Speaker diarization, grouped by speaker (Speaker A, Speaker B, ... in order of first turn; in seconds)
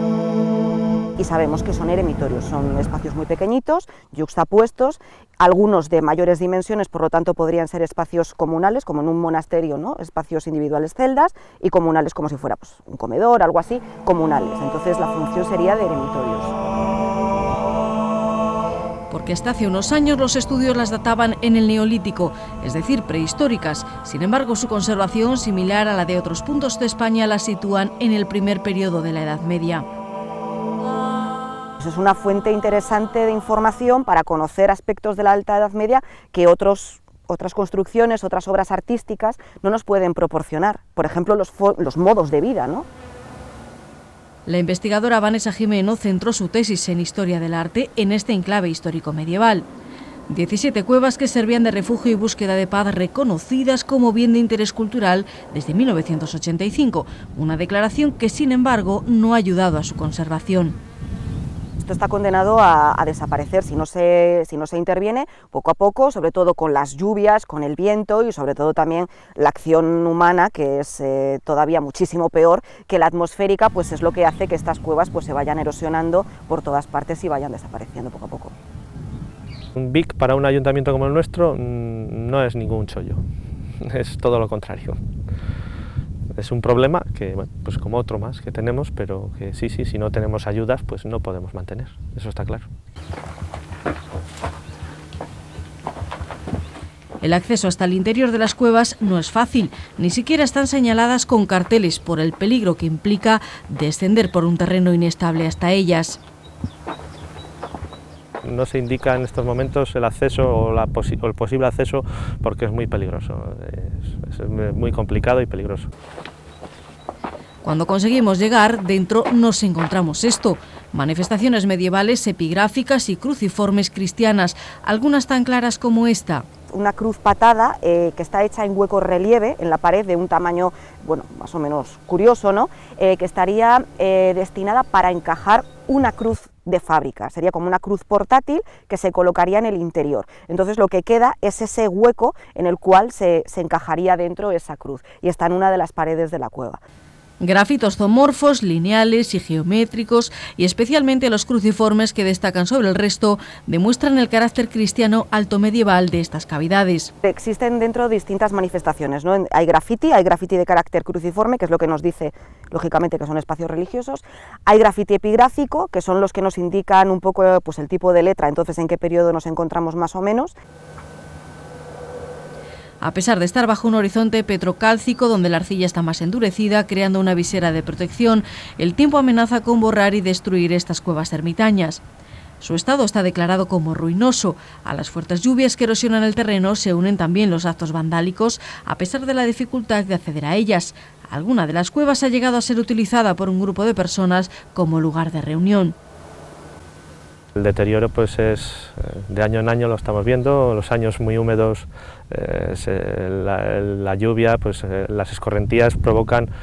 Speaker A: 1.2-16.6, 31.8-42.9, 61.8-78.5, 126.7-146.8, 157.2-170.5
Speaker B: 19.1-29.9, 44.5-49.7, 50.3-60.8, 97.2-106.2, 117.6-126.5, 147.4-157.1, 173.0-182.0, 182.6-195.9
Speaker C: 79.8-83.2, 83.8-85.0, 86.4-92.7, 108.4-115.9, 197.6-206.5